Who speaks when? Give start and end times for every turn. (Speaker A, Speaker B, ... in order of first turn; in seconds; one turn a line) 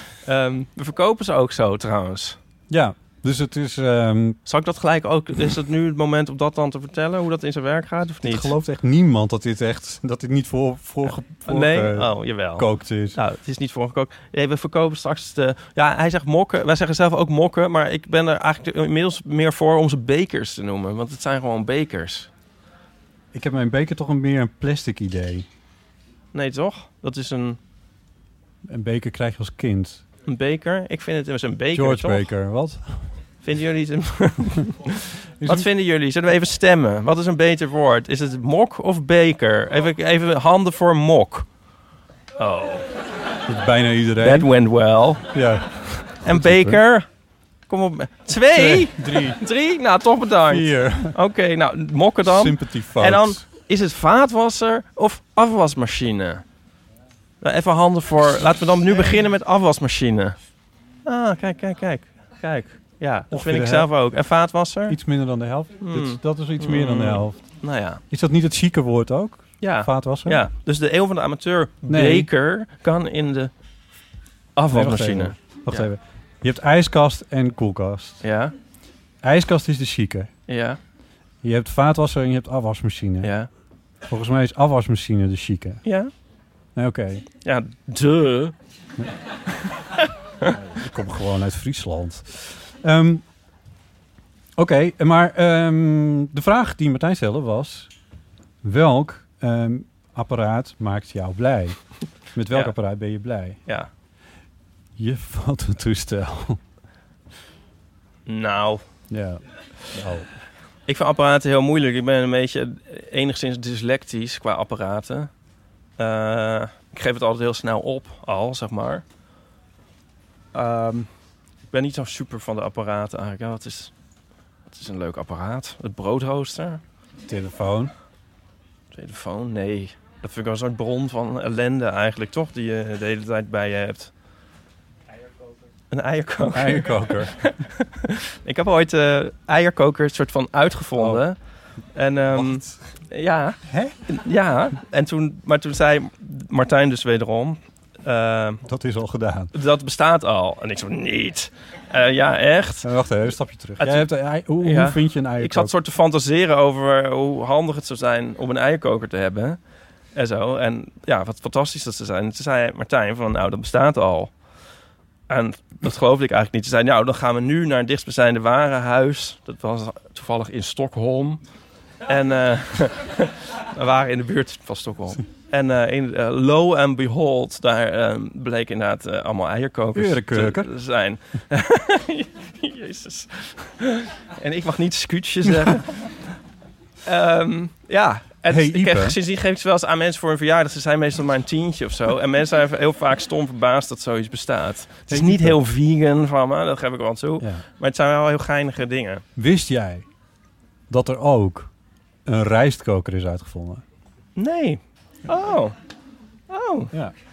Speaker A: 0.2-2.4
Speaker B: 2.7-4.4
Speaker A: 4.5-8.5
Speaker B: 8.2-13.2
Speaker A: 11.5-22.3
Speaker B: 23.3-25.5
Speaker A: 26.3-27.6
Speaker B: 28.7-30.0
Speaker A: 30.3-32.3
Speaker B: 31.7-33.1
Speaker A: 33.4-41.5
Speaker B: 35.4-35.7
Speaker A: 42.4-42.9
Speaker B: 43.5-44.5
Speaker A: 44.2-45.3
Speaker B: 45.3-46.8
Speaker A: 46.2-47.1
Speaker A: 47.7-56.4
Speaker B: 48.5-49.4
Speaker B: 50.5-51.2
Speaker B: 52.2-53.4
Speaker A: 57.4-60.4
Speaker A: 61.0-65.0
Speaker B: 63.3-63.9
Speaker B: 64.9-67.4
Speaker A: 65.8-68.0
Speaker B: 68.1-70.5
Speaker A: 69.6-73.5
Speaker B: 71.9-72.3
Speaker A: 74.6-75.9
Speaker B: 74.7-78.2
Speaker A: 78.2-78.5
Speaker B: 79.2-80.3
Speaker A: 80.5-80.8
Speaker B: 81.4-83.3
Speaker A: 83.2-83.5
Speaker B: 84.1-85.8
Speaker A: 85.8-86.1
Speaker B: 86.8-87.3
Speaker A: 87.4-88.5
Speaker B: 90.5-93.2
Speaker B: 94.6-97.9
Speaker B: 98.6-101.8
Speaker B: 102.3-103.6
Speaker B: 105.0-106.6
Speaker A: 108.3-108.8
Speaker B: 109.1-110.3
Speaker A: 110.9-115.3
Speaker A: 116.0-119.0
Speaker A: 120.5-121.1
Speaker A: 121.7-123.9
Speaker A: 124.7-126.8
Speaker B: 127.3-127.9
Speaker A: 128.9-134.1
Speaker A: 135.9-141.4
Speaker B: 136.5-137.5
Speaker B: 141.0-141.2
Speaker A: 141.9-148.6
Speaker B: 142.3-142.8
Speaker B: 143.7-144.0
Speaker B: 148.7-149.5
Speaker A: 149.5-152.9
Speaker B: 152.8-155.7
Speaker A: 153.8-154.1
Speaker A: 154.6-159.6
Speaker A: 160.2-164.3
Speaker A: 165.3-171.4
Speaker A: 172.1-186.2
Speaker B: 179.9-180.7
Speaker A: 187.0-199.2
Speaker B: 188.5-189.2
Speaker B: 195.1-195.6
Speaker B: 199.4-200.1
Speaker B: 200.9-201.7
Speaker B: 202.3-203.8
Speaker A: 204.4-205.8
Speaker A: 206.5-206.9